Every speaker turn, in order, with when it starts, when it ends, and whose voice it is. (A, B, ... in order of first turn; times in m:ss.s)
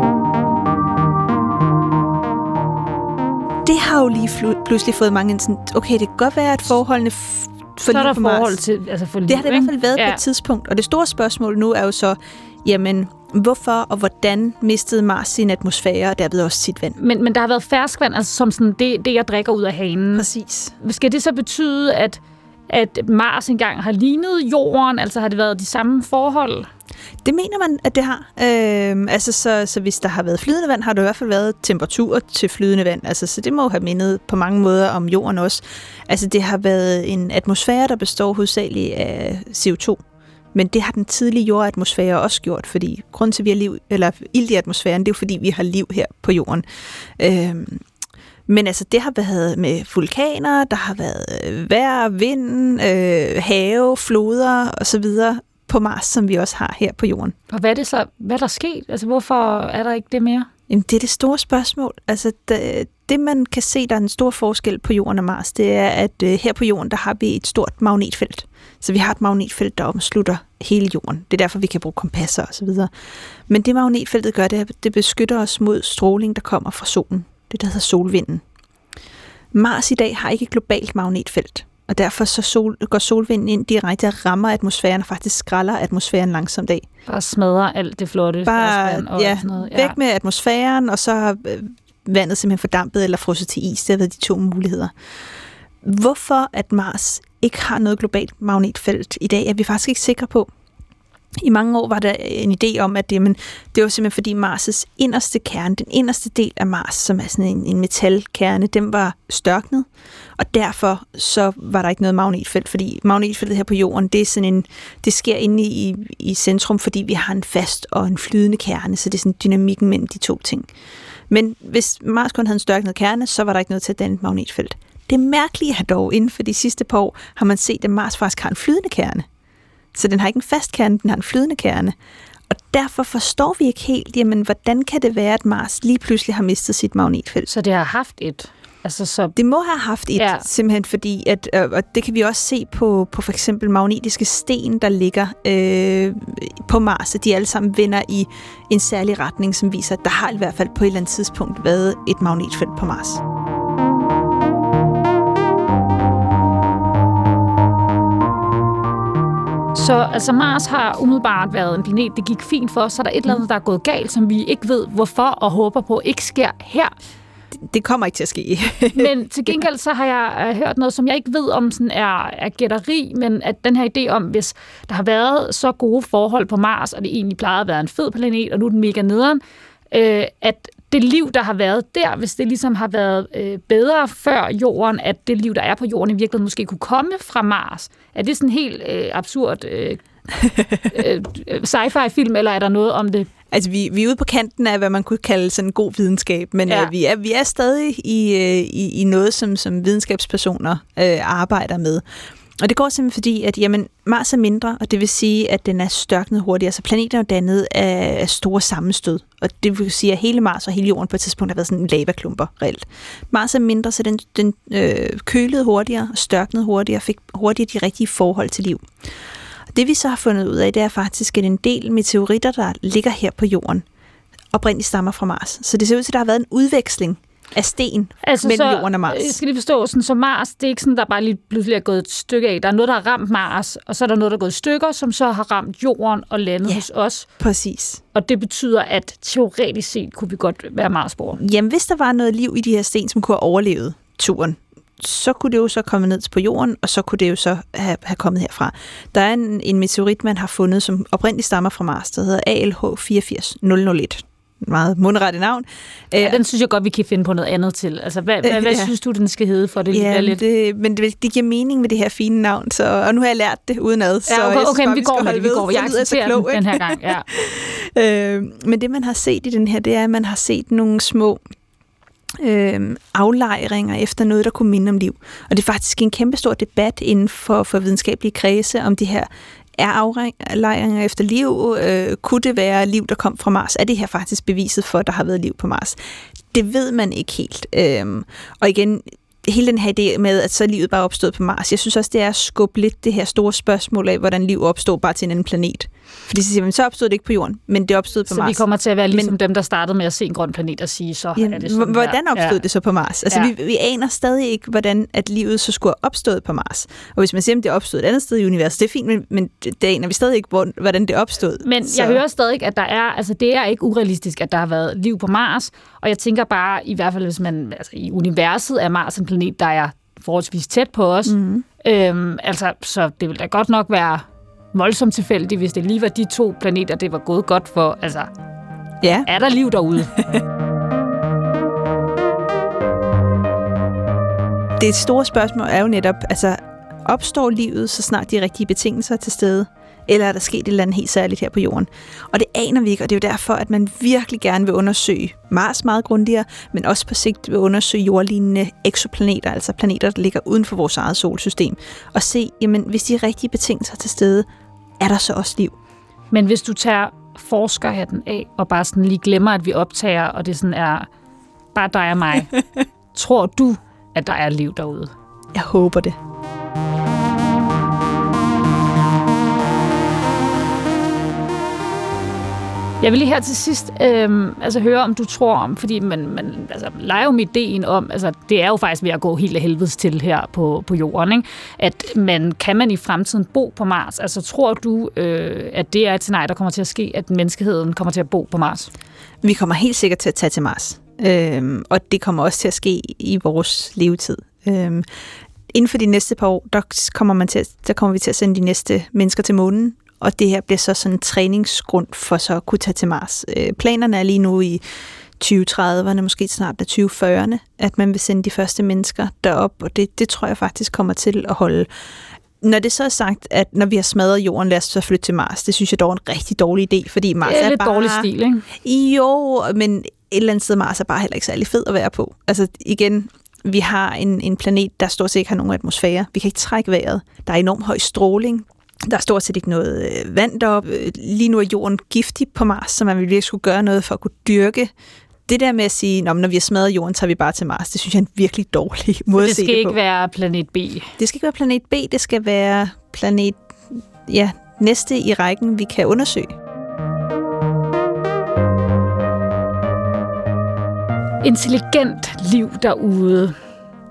0:03.6-0:08.6 A
0:07.9-0:10.2 B
0:09.3-0:17.0 A
0:17.0-0:20.3 B
0:20.2-0:20.8 A
0:20.8-0:26.7 B
0:27.2-0:40.0 A
0:40.5-0:46.6 A
0:47.2-0:47.8 A
0:48.5-0:57.4 A
0:57.5-1:00.5 B
1:00.7-1:12.9 A
1:13.5-1:18.4 A
1:19.5-1:26.8 A
1:27.1-1:30.0 B
1:28.5-1:34.9 A
1:35.8-1:40.5 A
1:41.4-1:49.9 A
1:50.4-2:00.7 A
2:01.3-2:09.2 A
2:09.9-2:11.9 A
2:12.5-2:17.5 A
2:17.5-2:19.4 B
2:19.4-2:33.2 A
2:20.2-2:20.5 B
2:39.7-2:46.9 B
2:47.7-2:49.6 A
2:49.0-2:59.4 B
2:59.9-3:10.0 B
3:10.8-3:13.3 B
3:13.5-3:22.0 A
3:22.6-3:38.8 A
3:39.8-3:43.8 A
3:44.5-3:49.4 A
3:48.2-3:57.3 B
3:57.4-3:58.0 A
3:58.1-4:01.4 B
4:01.4-4:16.4 A
4:16.2-4:20.4 B
4:18.4-4:19.0 A
4:19.9-4:31.4 A
4:24.2-4:27.2 B
4:32.4-4:46.0 A
4:46.5-4:59.4 A
4:58.3-5:02.6 B
5:01.4-5:12.2 A
5:11.6-5:28.3 B
5:21.2-5:21.6 A
5:29.0-5:29.3 A
5:29.2-5:30.2 B
5:30.1-5:30.4 A
5:34.8-5:54.5 A
5:55.0-5:55.7 A
5:56.3-6:01.1 B
6:01.7-6:02.5 B
6:03.1-6:05.1 B
6:05.5-6:06.2 A
6:13.0-6:28.9 B
6:29.4-6:35.0 A
6:35.7-6:44.8 A
6:45.4-6:51.9 A
6:52.6-6:58.3 A
6:57.4-6:58.7 B
6:58.8-7:14.9 A
7:15.5-7:20.0 A
7:19.4-7:21.1 B
7:21.2-7:26.5 A
7:31.4-7:33.6 B